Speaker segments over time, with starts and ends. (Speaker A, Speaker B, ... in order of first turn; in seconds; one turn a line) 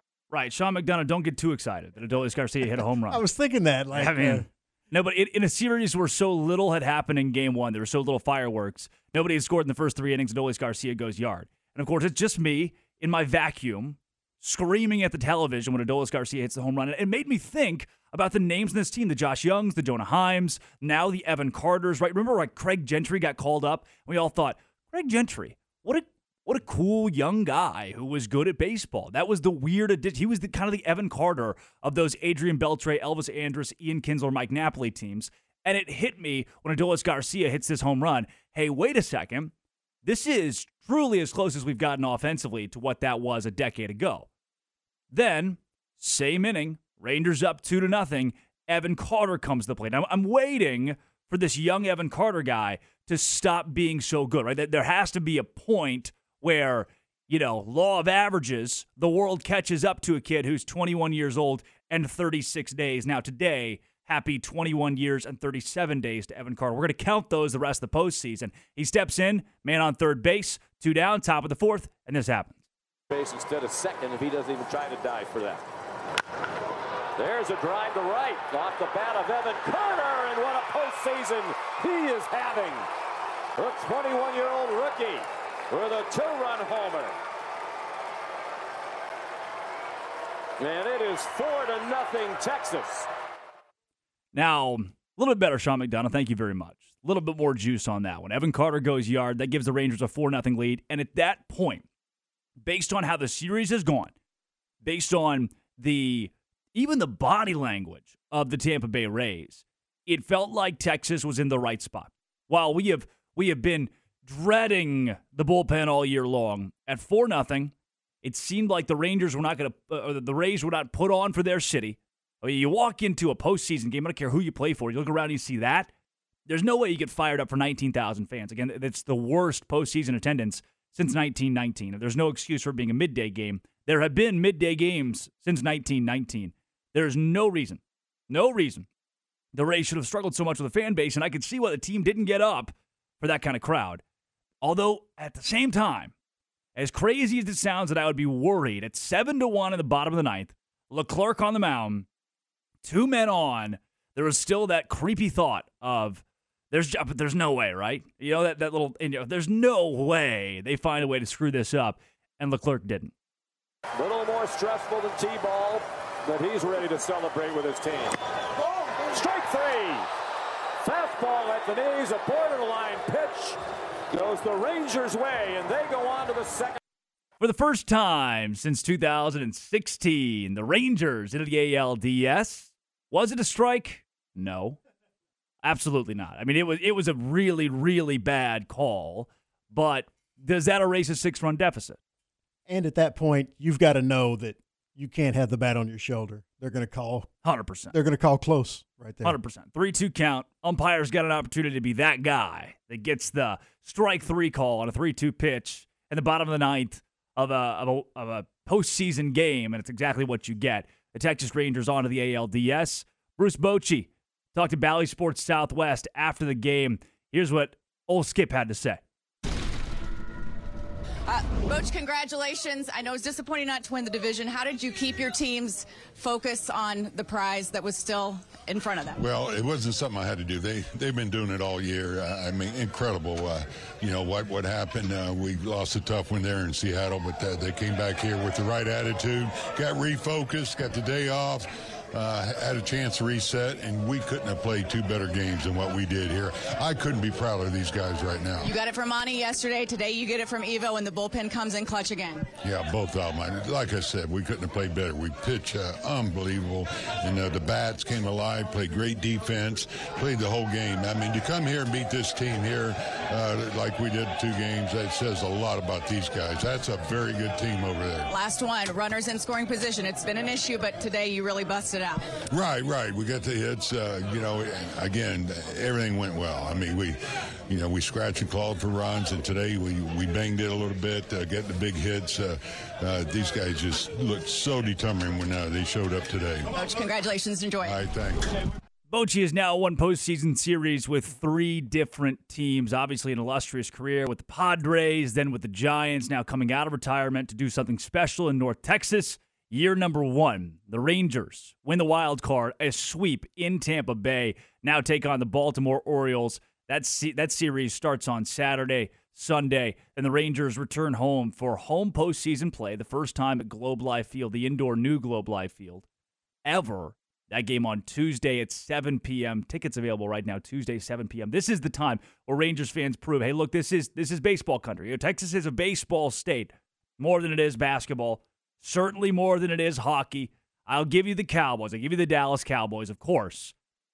Speaker A: 0.3-3.2
Speaker B: 3.1-4.5
Speaker A: 3.9-39.5
Speaker A: 40.0-44.3
Speaker A: 45.1-72.6
Speaker C: 73.1-75.6
Speaker C: 77.2-82.8
Speaker C: 83.5-87.2
Speaker C: 90.6-93.1
Speaker A: 94.3-101.8
Speaker A: 102.6-104.1
Speaker A: 104.8-125.9
Speaker A: 126.5-138.9
Speaker A: 139.5-144.0
Speaker A: 144.6-146.1
Speaker A: 146.8-152.1
Speaker A: 152.8-163.1
Speaker C: 163.9-168.2
Speaker C: 168.7-170.1
Speaker C: 170.8-173.6
Speaker C: 174.1-176.8
Speaker A: 177.4-184.8
Speaker A: 185.6-192.0
Speaker B: 192.7-197.3
Speaker A: 197.4-197.9
Speaker B: 197.9-199.3
Speaker A: 199.2-219.0
Speaker D: 221.3-229.2
Speaker E: 229.2-248.7
Speaker D: 248.6-252.5
Speaker E: 252.6-268.3
Speaker D: 268.3-272.3
Speaker E: 272.5-286.9
Speaker D: 286.7-288.0
Speaker E: 287.8-288.5
Speaker A: 289.1-316.0
Speaker A: 316.6-333.7